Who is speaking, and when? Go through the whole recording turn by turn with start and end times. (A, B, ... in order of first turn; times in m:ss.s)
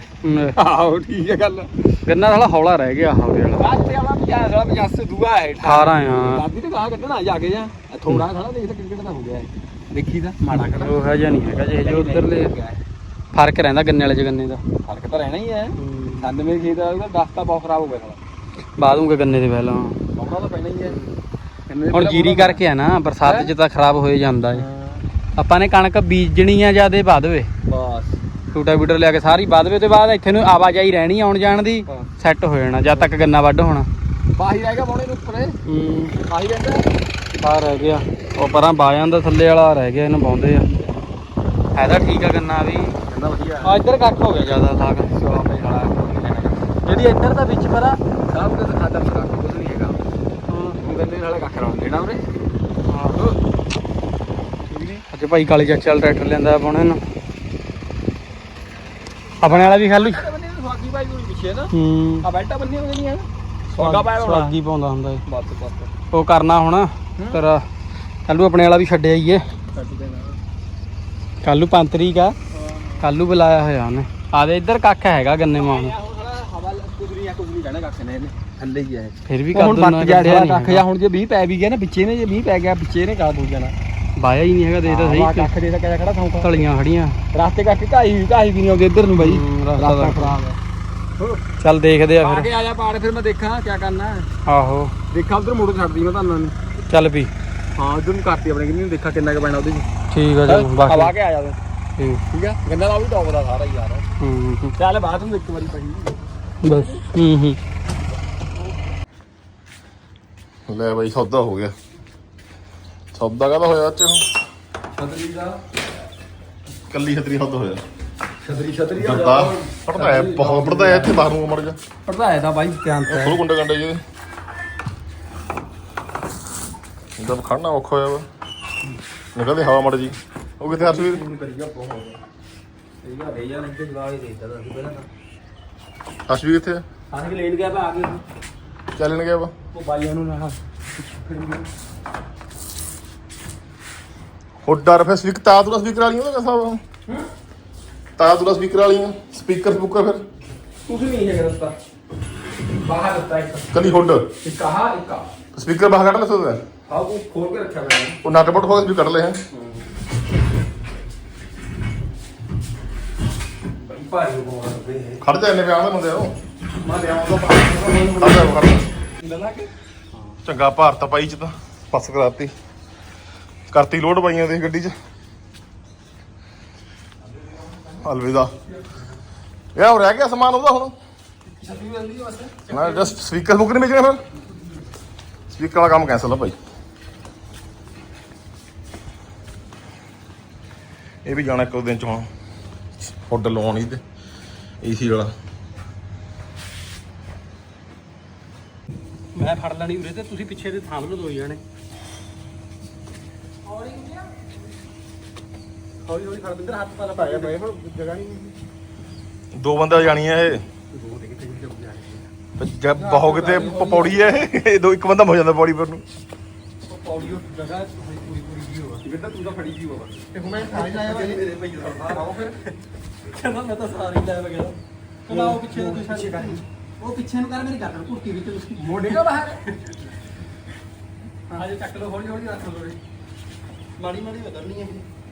0:00.2-0:00.5 A
0:00.5-0:02.0 B
0:02.0-0:03.7 A
0:03.6-0:12.8 B
0:05.6-0:06.4 A
0:10.4-0:12.5 A
0:13.3-0:14.6 A
0:14.8-0:18.2 B
0:15.8-0:16.3 A
0:18.8-0:20.0 A
0:20.2-0:21.0 B
0:20.8-0:21.2 A
0:21.7-0:22.6 B
0:21.9-0:24.6 A
0:23.2-0:23.5 B
0:24.5-0:25.0 B
0:25.4-0:27.5 A
0:27.7-0:28.2 B
0:28.5-0:33.9 A
0:34.4-0:35.6 B
0:35.6-0:36.2 A
0:36.3-0:36.8 B
0:37.4-0:40.7 A
0:41.7-0:43.0 A
0:43.1-0:43.8 B
0:43.6-0:45.4 A
0:45.2-0:46.8 B
0:46.8-0:48.0 A
0:48.3-0:50.0 B
0:50.5-0:50.8 A
0:50.8-0:52.2 B
0:52.8-0:53.2 A
0:54.7-0:55.0 B
0:55.1-0:57.0 A
0:59.4-1:04.6 B
0:59.4-1:00.2 A
1:01.7-1:02.2 A
1:03.8-1:05.2 A
1:05.2-1:05.9 B
1:06.1-1:07.6 A
1:07.2-1:07.4 B
1:08.3-1:09.4 A
1:09.7-1:10.4 B
1:11.4-1:12.4 A
1:12.5-1:13.1 B
1:13.0-1:15.9 A
1:15.5-1:23.7 B
1:19.3-1:20.8 A
1:24.2-1:25.5 A
1:24.8-1:26.5 B
1:26.4-1:27.2 A
1:27.3-1:30.6 B
1:29.2-1:30.4 A
1:31.2-1:31.4 B
1:31.6-1:32.5 A
1:32.2-1:34.3 B
1:34.4-1:34.9 A
1:35.1-1:36.6 B
1:36.9-1:37.3 A
1:37.8-1:39.9 B
1:40.1-1:41.1 A
1:40.4-1:41.6 B
1:42.3-1:44.0 B
1:44.2-1:44.7 A
1:44.8-1:47.0 B
1:46.6-1:47.6 A
1:50.7-1:51.7 C
1:53.1-1:54.2 C
1:55.0-1:55.6 B
1:56.9-1:57.8 C
1:58.4-2:01.2 B
1:59.0-2:01.8 C
2:02.0-2:03.4 B
2:03.1-2:04.0 C
2:07.2-2:08.2 C
2:09.3-2:11.2 C
2:10.7-2:12.2 B
2:13.0-2:15.1 B
2:16.3-2:16.8 C
2:17.1-2:18.2 B
2:19.0-2:19.5 C
2:19.7-2:21.6 B
2:24.6-2:26.8 C
2:28.2-2:30.2 C
2:30.8-2:31.8 B
2:32.7-2:33.8 B
2:33.7-2:34.3 C
2:34.4-2:35.3 B
2:35.5-2:36.6 C
2:36.9-2:38.2 B
2:38.2-2:39.4 C
2:39.5-2:39.8 B
2:43.8-2:45.2 B
2:45.2-2:46.3 C
2:46.8-2:48.6 B
2:48.1-2:48.8 C
2:49.2-2:49.7 B
2:50.4-2:52.5 C
2:53.7-2:54.9 C
2:58.0-2:58.5 C
2:59.7-3:01.0 C
3:01.5-3:02.7 B
3:02.7-3:04.2 C
3:02.7-3:03.0 A
3:05.5-3:06.6 C
3:11.2-3:12.3 C
3:13.0-3:14.0 C
3:14.8-3:15.3 C
3:19.3-3:21.6 A
3:23.7-3:24.2 A
3:26.0-3:27.6 A
3:27.1-3:28.5 B
3:29.5-3:30.6 C
3:30.9-3:32.2 B
3:32.6-3:36.0 C
3:33.0-3:34.3 B
3:33.2-3:34.1 A
3:36.9-3:39.0 A
3:39.0-3:42.5 B
3:40.3-3:44.8 A
3:45.3-3:50.1 A
3:45.3-3:46.6 B
3:48.8-3:49.6 B
3:51.5-3:53.0 A
3:54.0-3:55.0 A